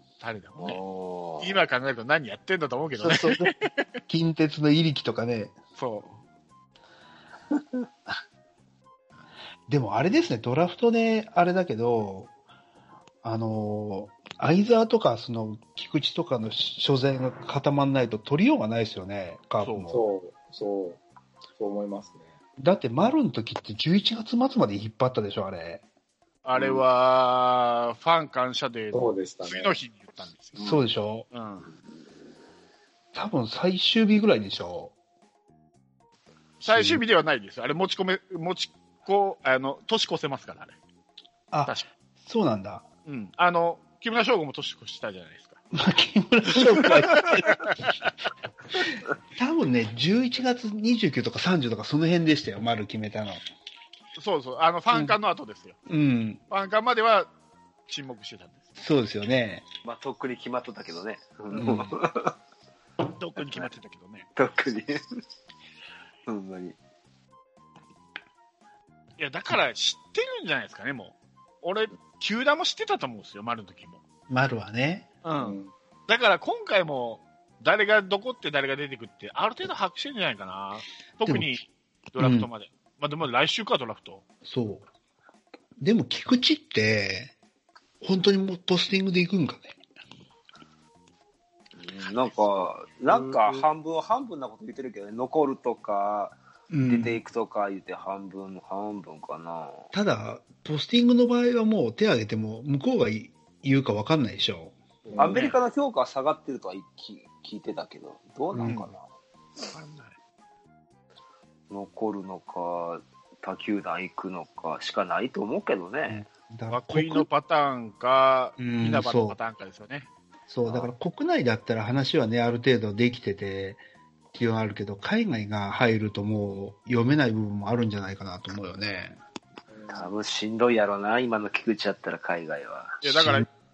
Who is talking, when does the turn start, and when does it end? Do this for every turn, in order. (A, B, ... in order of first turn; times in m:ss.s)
0:00.2-0:00.8 A
0:00.6-0:01.6 B
0:01.4-0:03.9 A
0:03.0-0:03.5 C
0:04.1-0:05.6 C
0:05.8-0:06.2 A
0:09.7-0:12.3 C
0:13.2-0:20.0 C
0:19.6-0:20.0 A
0:19.9-0:21.0 D
0:21.6-0:22.3 D
0:22.6-0:25.8 C
0:26.4-0:30.6 A
0:26.6-0:26.8 B
0:28.9-0:29.8 D
0:30.6-0:31.3 C
0:31.3-0:31.7 A
0:33.1-0:34.9 C
0:36.6-0:40.8 A
0:36.7-0:37.0 C
0:41.5-0:42.9 C
0:43.1-0:45.6 A
0:45.7-0:47.8 C
0:46.6-0:48.1 A
0:49.4-0:53.4 C
0:54.2-0:55.8 A
0:55.9-0:56.4 C
0:56.5-0:57.3 A
0:57.9-0:58.7 A
0:58.8-0:59.6 C
0:59.8-1:02.4 B
1:01.6-1:02.0 C
1:03.1-1:04.3 A
1:04.4-1:05.0 B
1:06.3-1:06.8 B
1:09.2-1:14.0 A
1:14.3-1:15.1 C
1:15.2-1:24.2 A
1:15.4-1:15.7 D
1:21.2-1:21.5 C
1:22.2-1:22.5 C
1:24.4-1:24.9 C
1:25.8-1:27.3 C
1:28.0-1:29.8 C
1:31.8-1:39.9 B
1:36.7-1:37.2 C
1:39.9-1:44.7 C
1:45.1-1:45.4 D
1:45.2-1:49.1 B
1:45.3-1:45.6 A
1:48.5-1:48.8 C
1:48.6-1:48.9 A
1:49.7-1:50.1 A
1:51.7-1:56.2 B
1:56.1-1:57.3 C
1:56.7-2:00.1 A
1:58.6-1:59.4 C
2:00.5-2:03.8 C
2:04.3-2:09.2 C
2:09.7-2:10.1 D
2:09.9-2:13.0 B
2:13.0-2:13.5 A
2:13.1-2:13.5 C